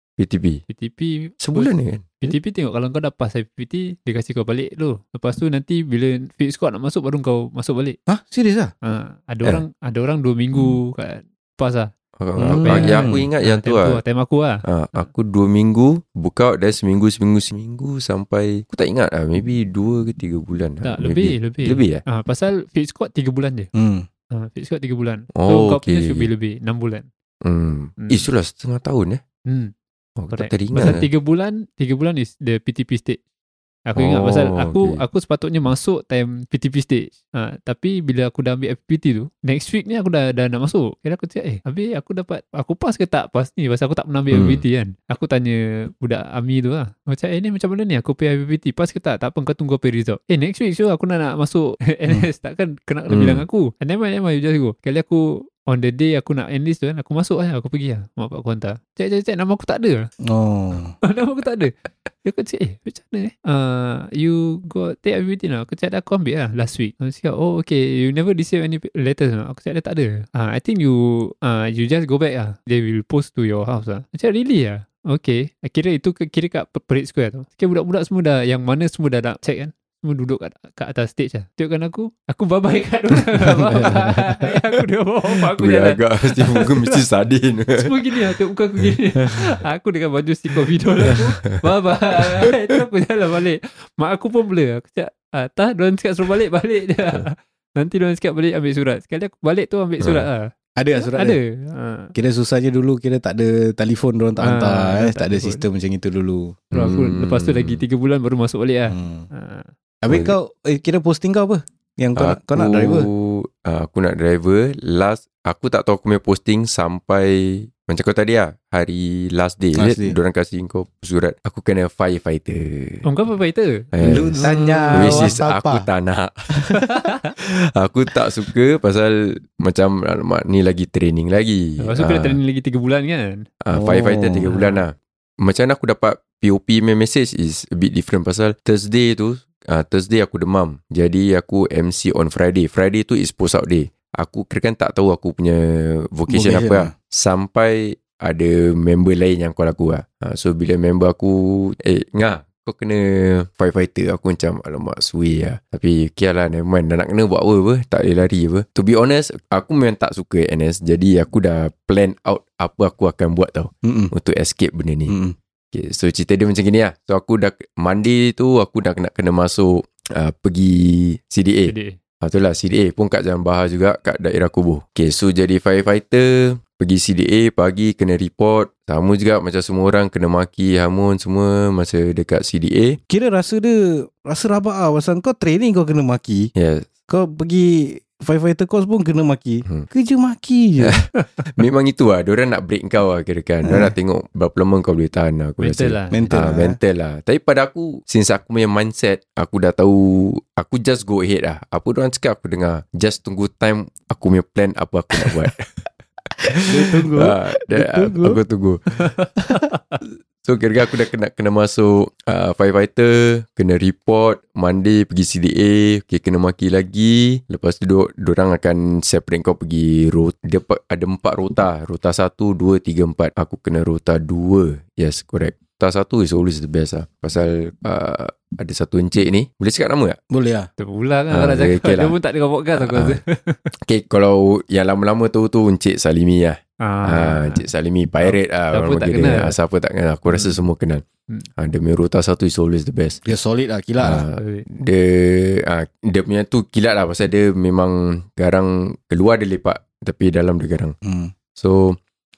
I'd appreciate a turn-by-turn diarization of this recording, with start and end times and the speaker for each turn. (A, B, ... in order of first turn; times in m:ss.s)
0:00.2-0:00.6 A
0:00.7-0:08.0 B
0:01.4-0:02.3 A
0:08.1-0:08.7 C
0:08.8-0:11.9 B
0:12.2-0:14.0 A
0:12.4-0:13.3 C
0:12.6-0:14.6 B
0:14.6-0:22.0 A
0:20.8-0:23.7 B
0:23.8-0:24.1 C
0:24.3-0:27.1 B
0:25.3-0:26.3 A
0:27.4-0:29.2 A
0:28.0-0:28.2 B
0:29.4-0:29.7 B
0:30.2-0:31.0 A
0:30.3-0:33.2 B
0:33.9-1:00.1 B
0:34.0-0:35.0 A
0:44.3-0:44.6 A
0:53.1-0:53.4 A
1:00.2-1:00.9 C
1:01.0-1:01.7 B
1:02.2-1:27.0 B
1:23.8-1:24.2 C
1:25.5-1:27.8 A
1:27.8-1:42.1 B
1:40.0-1:40.3 A
1:40.8-1:41.4 C
1:42.1-1:46.6 C
1:44.4-1:45.6 B
1:46.7-1:47.8 A
1:46.7-1:49.7 B
1:48.9-1:49.3 C
1:50.0-1:53.1 C
1:50.1-1:50.4 A
1:52.2-2:03.0 A
1:59.8-2:00.2 C
2:03.0-2:05.3 B
2:03.9-2:12.4 A
2:04.0-2:05.9 C
2:11.8-2:13.4 B
2:13.6-2:45.2 A
2:13.7-2:14.5 C
2:14.5-2:14.8 B
2:26.3-2:26.9 C
2:43.8-2:44.1 C
2:45.1-2:45.4 C
2:45.7-3:03.0 A
2:51.6-2:52.0 B
3:03.1-3:06.5 C
3:06.5-3:06.9 A
3:07.1-3:11.0 C
3:10.8-3:25.8 A
3:13.6-3:13.9 C
3:15.6-3:16.4 B
3:16.1-3:16.8 C
3:26.5-3:29.3 A
3:26.6-3:28.4 C
3:30.0-3:50.2 A
3:50.3-3:50.7 C
3:50.8-3:53.6 B
3:51.3-3:52.2 A
3:52.8-3:53.2 A
3:53.8-4:01.0 A
3:56.8-3:57.7 B
3:58.2-3:59.5 B
4:00.3-4:00.6 B
4:01.6-4:03.2 A
4:03.2-4:04.2 C
4:04.0-4:10.9 A
4:04.3-4:04.6 B
4:11.0-4:11.3 C
4:11.5-4:12.0 A